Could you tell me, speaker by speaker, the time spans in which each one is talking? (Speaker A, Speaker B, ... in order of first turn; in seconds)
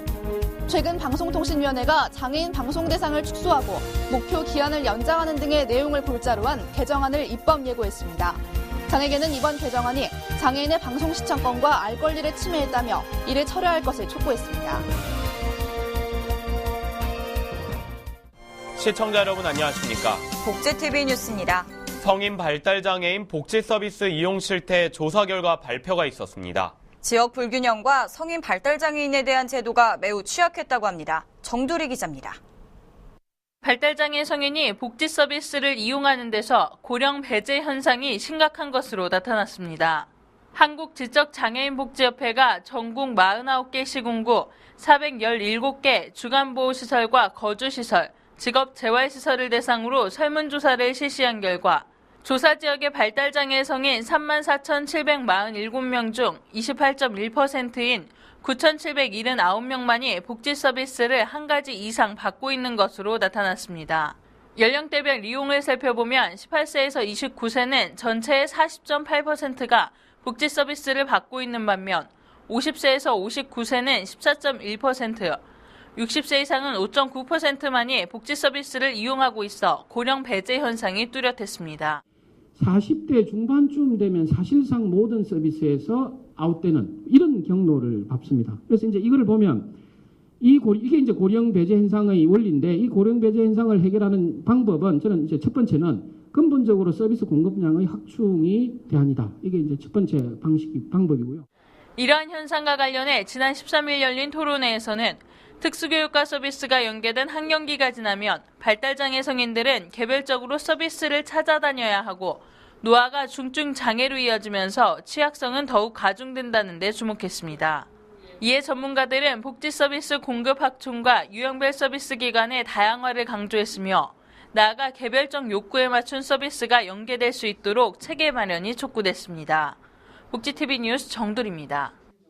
Speaker A: 0.7-14.8
Speaker B: 18.8-20.2, 22.0-26.7
Speaker C: 20.4-21.7, 27.0-32.4
Speaker D: 33.6-75.4, 76.0-82.0, 102.0-117.9, 118.4-129.8, 130.3-131.9
Speaker E: 82.6-89.7, 90.4-101.5